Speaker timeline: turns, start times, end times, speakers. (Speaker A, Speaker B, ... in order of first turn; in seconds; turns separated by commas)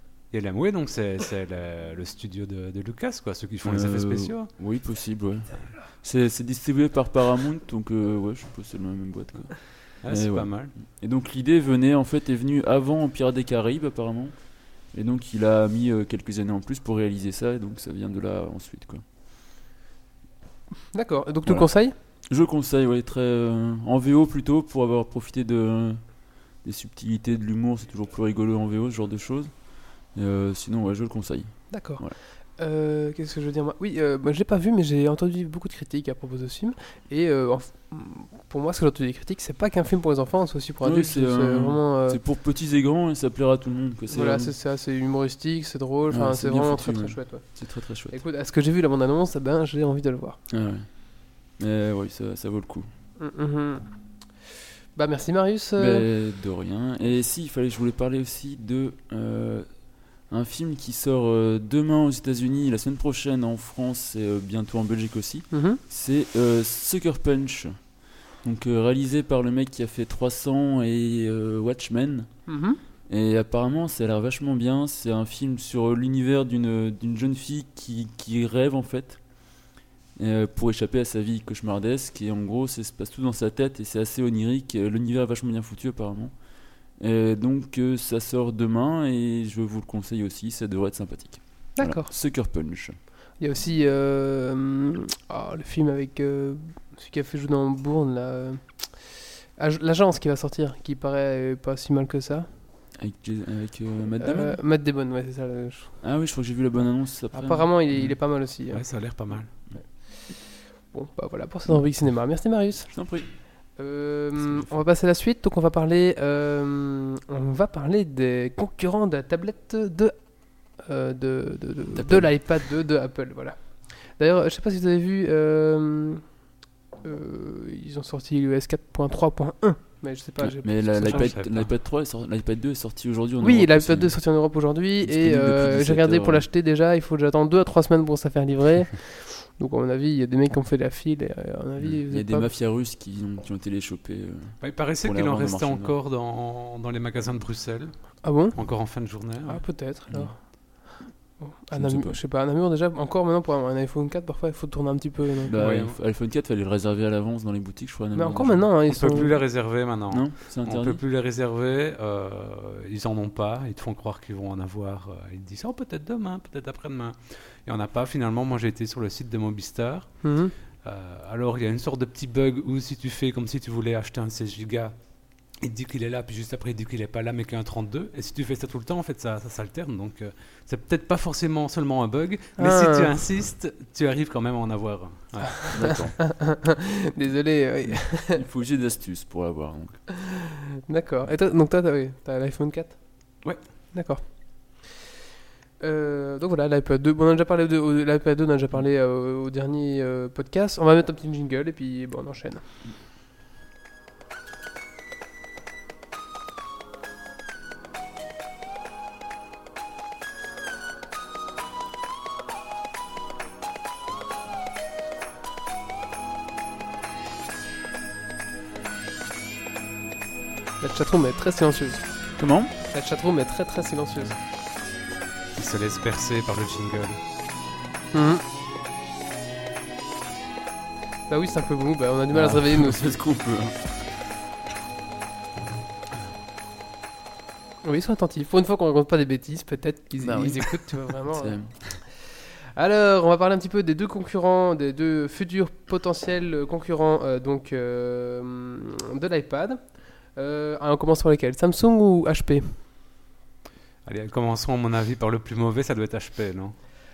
Speaker A: 0.3-4.5, Speaker B: 3.6-19.0, Speaker A: 10.0-10.7, Speaker C: 20.9-21.9, Speaker B: 21.4-32.2, Speaker C: 31.7-42.2, Speaker B: 40.8-44.5, Speaker C: 44.1-50.4, Speaker B: 46.1-48.2, Speaker B: 50.5-52.9, Speaker C: 53.2-54.3, Speaker C: 54.9-56.1, Speaker B: 55.8-72.5, Speaker C: 65.5-65.8, Speaker C: 72.5-72.8, Speaker B: 73.1-93.0, Speaker C: 91.8-92.1, Speaker C: 93.4-102.5, Speaker B: 102.9-104.6, Speaker C: 104.2-106.0, Speaker B: 106.0-108.2, Speaker C: 107.3-126.4, Speaker A: 108.7-109.5, Speaker B: 109.3-109.8, Speaker B: 111.7-112.0, Speaker B: 112.9-113.4, Speaker B: 121.9-122.5, Speaker C: 127.0-131.3, Speaker B: 130.4-134.2, Speaker A: 131.1-131.7, Speaker C: 133.4-142.5, Speaker B: 135.0-136.4, Speaker B: 142.1-145.9, Speaker A: 144.6-149.7, Speaker C: 148.2-155.6, Speaker B: 150.1-150.9, Speaker B: 151.7-152.2, Speaker B: 155.4-161.0, Speaker A: 155.6-155.9, Speaker C: 158.1-159.3, Speaker A: 158.9-185.9, Speaker C: 170.2-170.5, Speaker C: 182.6-183.1, Speaker B: 185.7-186.6, Speaker C: 186.2-188.4, Speaker B: 187.8-190.0, Speaker C: 190.9-194.9, Speaker A: 193.4-193.7, Speaker C: 195.8-202.6, Speaker C: 220.8-224.4, Speaker B: 222.4-222.7, Speaker A: 225.5-227.2, Speaker C: 228.1-228.4, Speaker C: 231.3-233.2, Speaker B: 232.3-234.1, Speaker C: 237.8-252.8, Speaker B: 240.2-242.0, Speaker A: 254.0-256.8